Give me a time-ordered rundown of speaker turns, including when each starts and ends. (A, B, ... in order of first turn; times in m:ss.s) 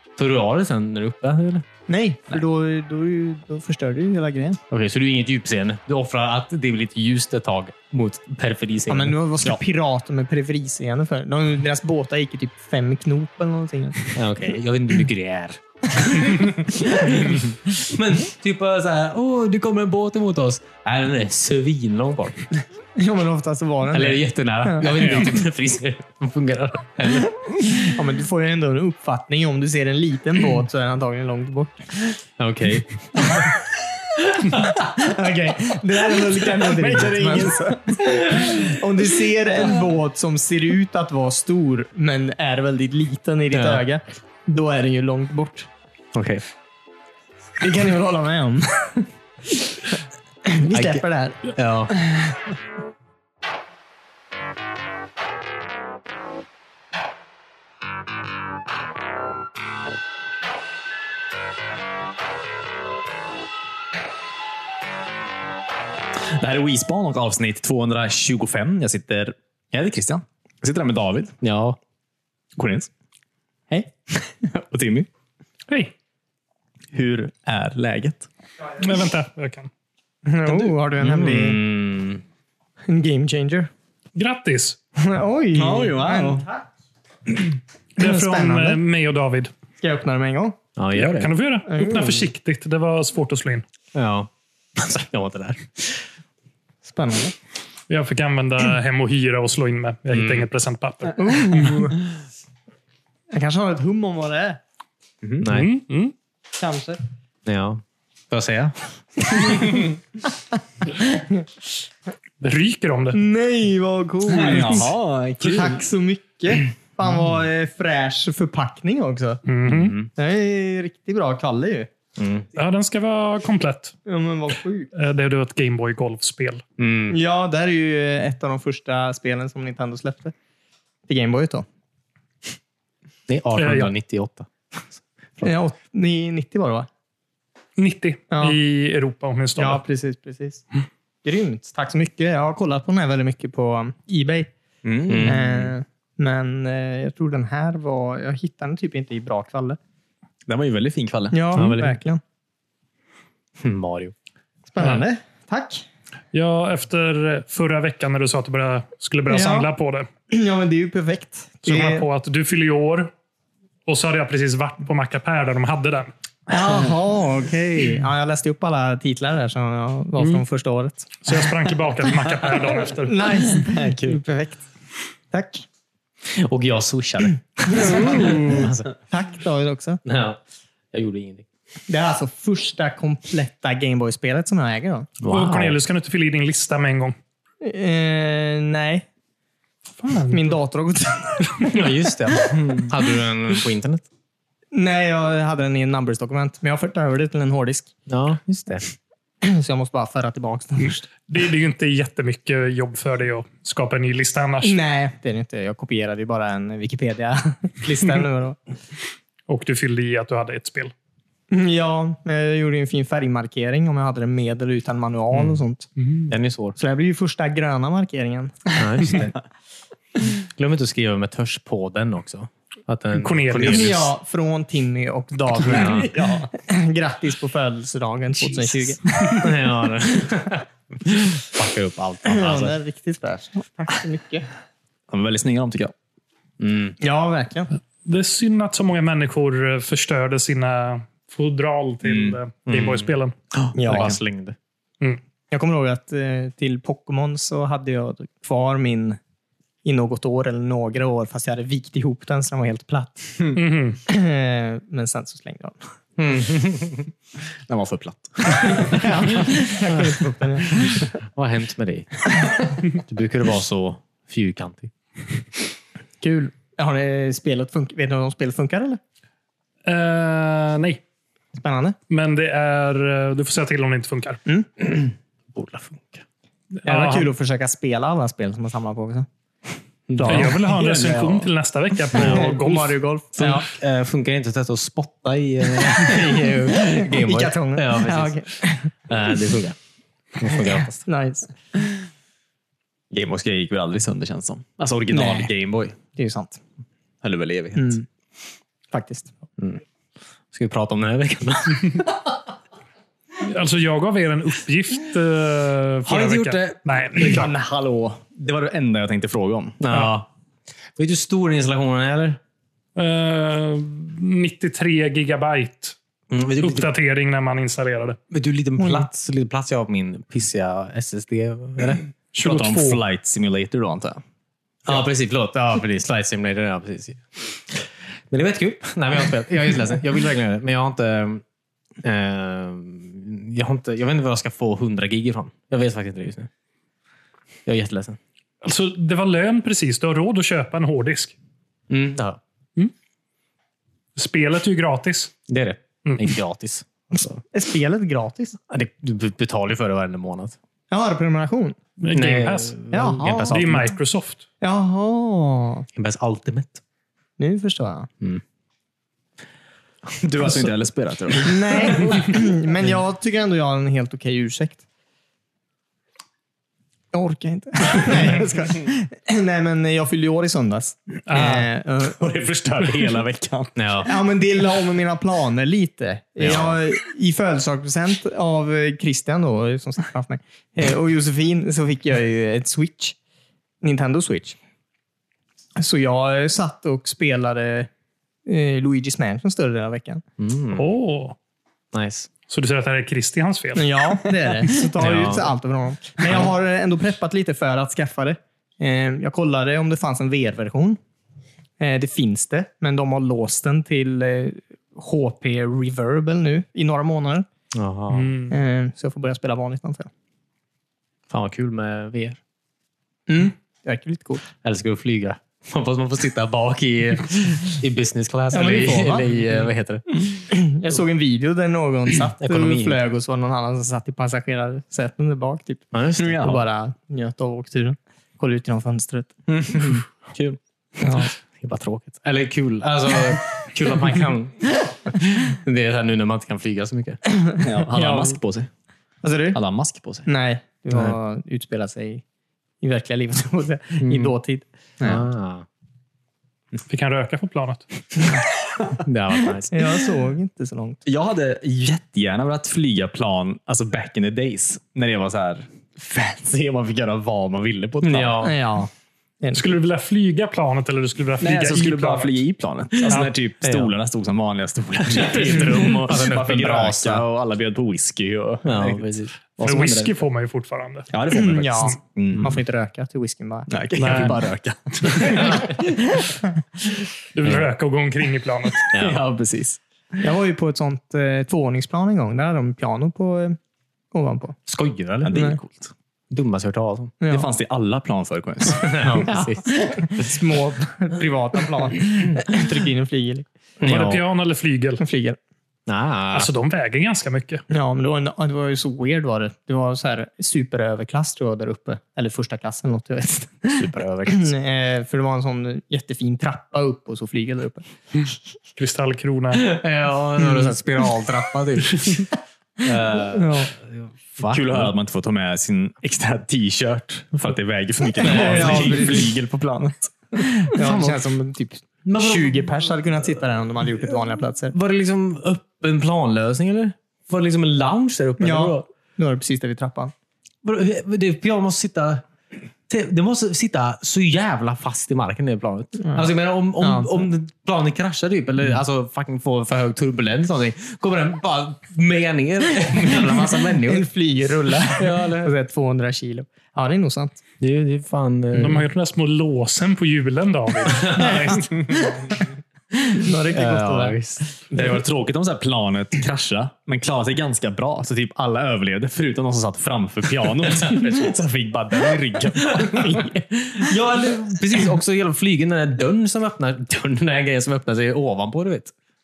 0:00.2-0:01.6 A
0:01.9-0:04.6 B
0:04.7-0:09.2 A
0:08.9-0:14.1 B
0:14.1-0:22.5 A
0:16.2-0:17.4 B
0:23.0-0:25.3 B
0:23.9-0:27.4 A
0:27.6-0:32.2 B
0:32.4-0:33.2 A
0:33.2-0:33.5 B
0:34.4-0:45.7 B
0:36.5-0:38.5 C
0:43.5-0:43.9 A
0:46.1-0:46.4 A
0:47.6-0:49.1 B
0:50.4-0:52.5 B
0:50.7-0:51.9 A
1:06.2-1:11.4 C
1:11.4-1:11.8 A
1:12.6-1:12.9 C
1:14.5-1:15.1 C
1:15.7-1:15.9 D
1:16.9-1:18.3 C
1:18.8-1:19.7 D
1:20.3-1:21.6 B
1:20.6-1:22.2 A
1:22.9-1:23.7 B
1:24.2-1:24.8 D
1:25.0-1:26.4 B
1:25.5-1:26.5 C
1:28.0-1:29.5 D
1:28.0-1:28.8 B
1:29.8-1:30.6 B
1:30.8-1:31.3 A
1:31.0-1:33.6 D
1:31.7-1:32.3 B
1:33.9-1:36.0 A
1:36.8-1:37.4 B
1:37.9-1:41.9 D
1:40.1-1:40.5 A
1:41.1-1:42.0 B
1:43.3-1:44.6 B
1:45.4-1:45.7 A
1:45.4-1:46.1 D
1:46.5-1:47.0 B
1:47.4-1:49.7 A
1:49.3-1:49.9 B
1:51.2-1:51.4 B
1:52.4-1:53.2 D
1:53.1-1:59.4 B
1:54.3-1:55.8 C
1:59.5-2:00.0 D
1:59.7-2:00.1 A
2:00.1-2:01.9 B
2:02.2-2:02.5 A
2:02.6-2:04.0 D
2:04.1-2:04.9 B
2:04.9-2:06.6 D
2:06.8-2:07.2 A
2:07.1-2:10.3 B
2:11.1-2:11.7 B
2:13.3-2:15.5 A
2:13.6-2:13.9 D
2:15.4-2:16.9 B
2:17.8-2:19.8 D
2:18.3-2:18.6 B
2:19.6-2:20.6 B
2:21.2-2:24.5 B
2:24.8-2:25.5 C
2:25.1-2:25.7 A
2:25.2-2:29.8 B
2:30.5-2:31.7 C
2:31.3-2:32.2 B
2:31.5-2:32.0 A
2:33.6-2:34.1 A
2:34.7-2:35.8 B
2:34.8-2:35.0 D
2:36.3-2:40.1 D
2:39.3-2:39.7 B
2:40.3-2:42.0 B
2:41.7-2:43.1 D
2:43.9-2:46.1 D
2:46.5-2:51.2 B
2:50.2-2:50.4 D
2:51.2-2:53.5 D
2:53.1-2:54.6 B
2:55.3-2:55.6 B
2:56.3-2:58.9 A
2:57.7-3:00.0 B
3:00.0-3:00.4 A
3:00.9-3:01.4 A
3:01.9-3:05.1 B
3:05.2-3:05.8 A
3:05.3-3:07.2 D
3:07.6-3:09.1 B
3:10.0-3:10.6 D
3:10.3-3:12.0 B
3:11.7-3:14.1 A
3:12.5-3:12.9 B
3:14.7-3:17.9 B
3:18.1-3:18.9 A
3:19.4-3:21.1 B
3:21.3-3:24.8 D
3:24.6-3:28.6 B
3:29.5-3:30.9 D
3:31.5-3:35.9 B
3:35.3-3:35.6 A
3:36.0-3:36.3 D
3:36.3-3:36.8 A
3:36.8-3:39.3 B
3:38.8-3:39.3 A
3:40.4-3:44.1 A
3:43.1-3:44.0 D
3:43.6-3:49.5 B
3:45.6-3:46.1 A
3:45.8-3:46.5 C
3:49.4-3:52.8 A
3:52.2-3:54.5 B
3:55.1-3:55.9 C
3:56.6-3:57.0 A
3:57.0-3:57.7 B
3:58.0-4:03.3 D
4:02.0-4:02.4 C
4:02.7-4:04.6 A
4:03.8-4:04.2 B
4:05.5-4:09.2 B
4:09.8-4:15.8 B
4:13.6-4:14.0 D
4:16.2-4:17.1 A
4:17.7-4:19.1 C
4:18.8-4:21.1 B
4:21.2-4:22.3 A
4:22.9-4:24.9 A
4:26.2-4:29.0 B
4:29.9-4:31.0 D
4:31.5-4:32.0 B
4:32.1-4:34.4 D
4:34.8-4:36.2 A
4:36.7-4:37.3 D
4:36.9-4:39.3 B
4:40.1-4:40.6 A
4:40.2-4:43.0 D
4:40.3-4:41.1 B
4:40.8-4:41.4 C
4:42.2-4:42.6 A
4:42.2-4:43.7 B
4:43.4-4:48.4 A
4:45.9-4:48.9 B
4:49.1-4:49.8 A
4:50.4-4:51.0 A
4:51.1-4:51.5 B
4:53.1-4:55.9 C
4:55.1-4:55.5 B
4:56.2-4:56.6 B
4:57.2-4:58.0 C
4:57.8-4:58.0 B
4:58.9-4:59.3 B
5:00.5-5:02.4 A
5:03.4-5:07.5 D
5:06.1-5:07.4 A
5:07.3-5:09.8 C
5:09.8-5:10.3 A
5:11.0-5:12.4 A
5:13.0-5:16.0 D
5:16.3-5:16.9 A
5:16.6-5:18.2 D
5:18.3-5:22.1 A
5:18.8-5:19.1 B
5:22.3-5:23.0 D
5:22.4-5:24.2 C
5:24.8-5:31.4 A
5:32.0-5:36.5 A
5:37.7-5:38.2 A
5:38.6-5:41.4 D
5:41.9-5:42.4 A
5:44.2-5:45.3 D
5:45.5-5:47.4 A
5:46.0-5:46.4 D
5:47.5-5:48.6 B
5:48.7-5:50.6 A
5:50.9-5:51.8 B
5:52.0-5:52.8 D
5:52.1-5:53.9 A
5:52.9-5:53.8 B
5:53.4-5:54.4 D
5:54.6-5:55.9 B
5:56.0-5:56.8 A
5:57.4-5:58.1 B
6:00.2-6:02.1 C
6:00.4-6:00.7 A
6:01.4-6:04.8 B
6:07.1-6:12.3 B
6:11.3-6:11.7 D
6:12.1-6:13.8 C
6:13.8-6:14.1 A
6:14.0-6:23.2 B
6:16.4-6:16.8 A
6:23.8-6:24.6 B
6:25.8-6:27.9 B
6:28.5-6:30.2 B
6:30.4-6:30.9 A
6:30.8-6:31.4 D
6:31.9-6:32.3 A
6:32.5-6:34.1 D
6:33.8-6:41.0 B
6:35.0-6:35.5 A
6:41.8-6:47.5 B
6:47.7-6:48.3 A
6:48.1-6:48.6 D
6:48.5-6:50.1 B
6:51.3-6:52.4 A
6:53.3-6:54.4 B
6:54.6-7:00.2 A
6:58.5-6:59.7 B
7:00.4-7:09.3 B
7:02.4-7:03.0 A
7:05.9-7:06.6 A
7:06.2-7:06.6 C
7:09.5-7:10.0 C
7:09.8-7:10.6 A
7:11.0-7:11.3 B
7:11.1-7:17.2 A
7:17.3-7:18.4 B
7:17.6-7:18.7 C
7:19.2-7:19.6 B
7:19.5-7:20.3 C
7:20.2-7:22.2 B
7:22.8-7:25.3 B
7:24.0-7:24.4 A
7:25.0-7:25.7 A
7:26.9-7:27.9 D
7:29.0-7:29.8 A
7:29.7-7:31.0 B
7:31.0-7:38.4 C
7:38.0-7:38.6 A
7:38.4-7:38.9 B
7:39.5-7:42.4 D
7:41.4-7:50.2 C
7:43.0-7:43.3 D
7:43.1-7:43.9 A
7:45.1-7:47.2 A
7:48.6-7:49.3 A
7:49.6-7:51.1 D
7:51.1-7:52.6 C
7:51.3-7:54.3 B
7:53.7-7:55.7 C
7:54.0-7:54.4 D
7:55.1-7:56.4 B
7:57.4-7:58.9 D
7:57.4-7:57.7 A
7:58.9-7:59.2 A
7:58.9-7:59.8 C
8:00.2-8:03.6 B
8:04.1-8:04.6 B
8:04.7-8:05.4 A
8:05.2-8:05.9 C
8:06.3-8:07.1 A
8:07.2-8:07.5 B
8:07.3-8:09.2 C
8:08.8-8:10.4 A
8:09.1-8:13.5 B
8:13.8-8:14.2 A
8:13.8-8:15.0 D
8:15.0-8:15.4 B
8:15.9-8:16.5 A
8:16.3-8:17.6 D
8:17.7-8:27.8 B
8:23.7-8:24.5 A
8:28.8-8:29.7 D
8:29.6-8:32.3 A
8:30.4-8:30.8 B
8:32.8-8:34.9 A
8:33.3-8:33.7 B
8:34.4-8:40.1 C
8:38.2-8:39.3 A
8:38.2-8:39.3 B
8:40.4-8:44.8 B
8:40.7-8:41.2 A
8:42.0-8:42.7 A
8:44.7-8:48.9 A
8:48.4-8:50.1 B
8:50.6-8:52.2 A
8:52.9-9:04.1 A
8:56.0-8:57.3 B
9:03.0-9:07.4 B
9:04.9-9:05.5 A
9:07.6-9:08.8 A
9:08.5-9:08.8 B
9:08.6-9:11.6 D
9:11.1-9:11.6 A
9:11.1-9:12.5 B
9:13.0-9:14.2 B
9:13.5-9:14.7 A
9:14.7-9:23.4 C
9:23.8-9:28.9 A